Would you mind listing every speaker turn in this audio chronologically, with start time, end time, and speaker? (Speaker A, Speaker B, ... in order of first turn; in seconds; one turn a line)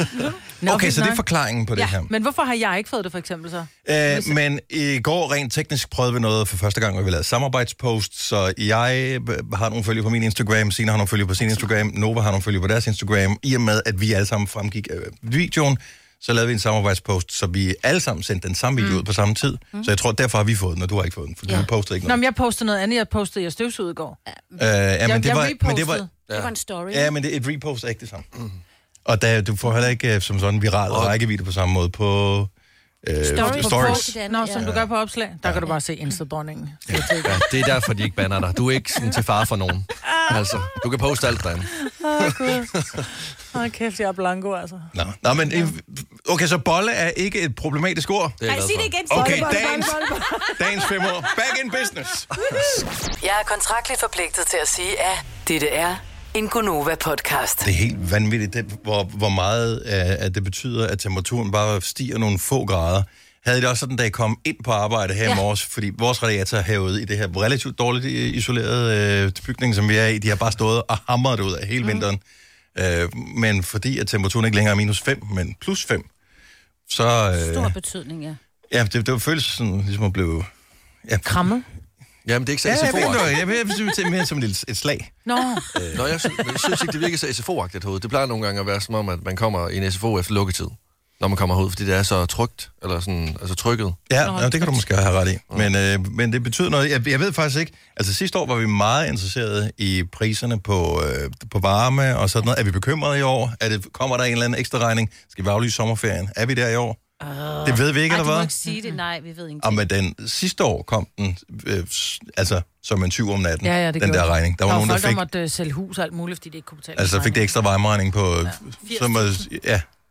Speaker A: 0.6-1.2
Speaker B: 0.6-2.1
Speaker A: 1.8-4.3
Speaker B: 3.8-22.2
Speaker A: 22.0-24.2
Speaker C: 24.3-24.6
Speaker B: 24.6-26.1
Speaker A: 25.0-26.1
Speaker D: 26.3-26.5
Speaker C: 26.3-27.1
Speaker B: 26.9-28.3
Speaker B: 29.0-32.5
Speaker D: 30.9-31.1
Speaker B: 33.0-34.9
Speaker C: 33.2-34.7
Speaker A: 33.2-37.4
Speaker D: 37.2-43.1
Speaker A: 41.8-42.7
Speaker A: 43.5-44.9
Speaker B: 44.9-48.4
Speaker D: 48.4-49.2
Speaker C: 48.5-50.5
Speaker B: 49.1-52.3
Speaker A: 49.1-50.5
Speaker D: 52.4-52.8
Speaker E: 53.2-57.7
Speaker B: 57.6-72.2
Speaker B: 72.7-76.1
Speaker B: 76.9-77.7
Speaker C: 77.3-78.4
Speaker B: 78.7-80.5
Speaker B: 81.0-81.4
Speaker A: 81.2-81.6
Speaker D: 82.2-83.3
Speaker B: 82.6-86.1
Speaker A: 85.2-85.7
Speaker D: 85.9-94.0
Speaker B: 94.1-107.0
Speaker A: 94.2-94.8
Speaker C: 107.2-109.8
Speaker B: 107.6-108.5
Speaker B: 109.6-115.2
Speaker A: 113.6-117.4
Speaker B: 117.0-119.8